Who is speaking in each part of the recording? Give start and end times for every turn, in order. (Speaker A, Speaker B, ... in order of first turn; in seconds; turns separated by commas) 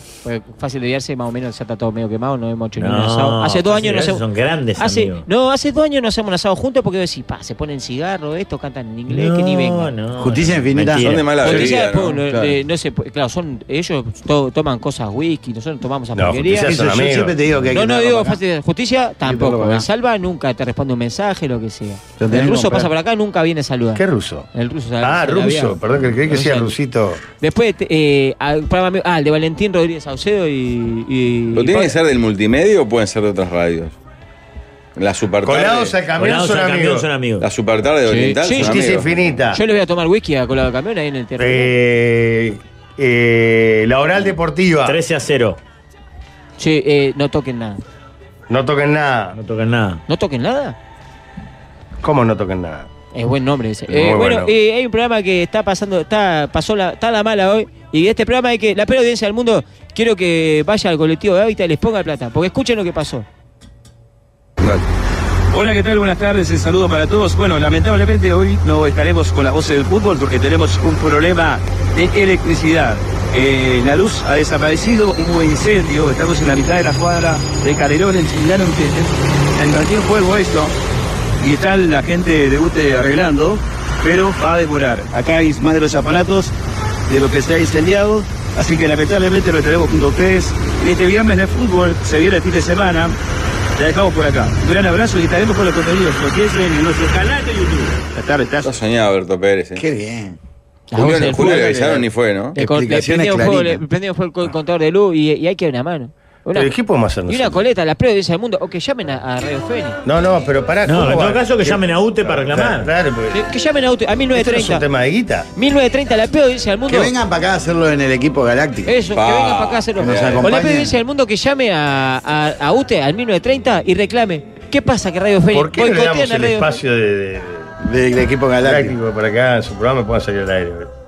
Speaker A: 0.2-4.2, Speaker B: 2.8-5.3, Speaker A: 4.8-9.9, Speaker B: 9.1-11.7, Speaker C: 10.2-11.2, Speaker D: 11.0-12.6, Speaker A: 11.4-16.8, Speaker E: 16.1-17.4, Speaker C: 16.5-18.4, Speaker A: 17.7-24.0, Speaker C: 19.2-19.9, Speaker C: 22.2-22.9, Speaker E: 24.0-24.5, Speaker A: 24.5-26.8, Speaker E: 25.0-27.2, Speaker A: 27.4-31.9, Speaker D: 31.5-34.0, Speaker D: 35.0-36.0, Speaker E: 35.4-37.1, Speaker B: 36.2-37.5, Speaker D: 37.4-39.3, Speaker A: 38.0-38.9, Speaker E: 38.5-39.6, Speaker A: 39.5-41.7, Speaker E: 41.4-45.0, Speaker B: 44.8-45.6, Speaker A: 46.6-47.8, Speaker E: 48.5-49.4, Speaker B: 49.4-50.0, Speaker A: 50.1-50.8, Speaker E: 52.0-52.9, Speaker A: 53.1-63.2, Speaker E: 53.9-54.5, Speaker F: 65.5-80.7, Speaker F: 81.4-86.5, Speaker F: 87.1-93.2, Speaker F: 93.8-98.7, Speaker D: 98.6-99.8, Speaker C: 99.8-100.4, Speaker A: 100.9-101.8, Speaker D: 100.9-102.5, Speaker C: 101.2-103.8, Speaker A: 102.5-106.7, Speaker E: 106.5-107.6, Speaker A: 107.3-110.0, Speaker E: 110.0-113.4, Speaker B: 110.8-112.9, Speaker A: 113.3-114.8, Speaker E: 114.3-115.5, Speaker A: 115.6-117.1, Speaker C: 116.9-118.9, Speaker A: 118.9-126.8, Speaker D: 119.1-120.5, Speaker C: 120.0-120.9, Speaker E: 125.5-127.7, Speaker C: 127.8-129.0, Speaker E: 128.6-130.9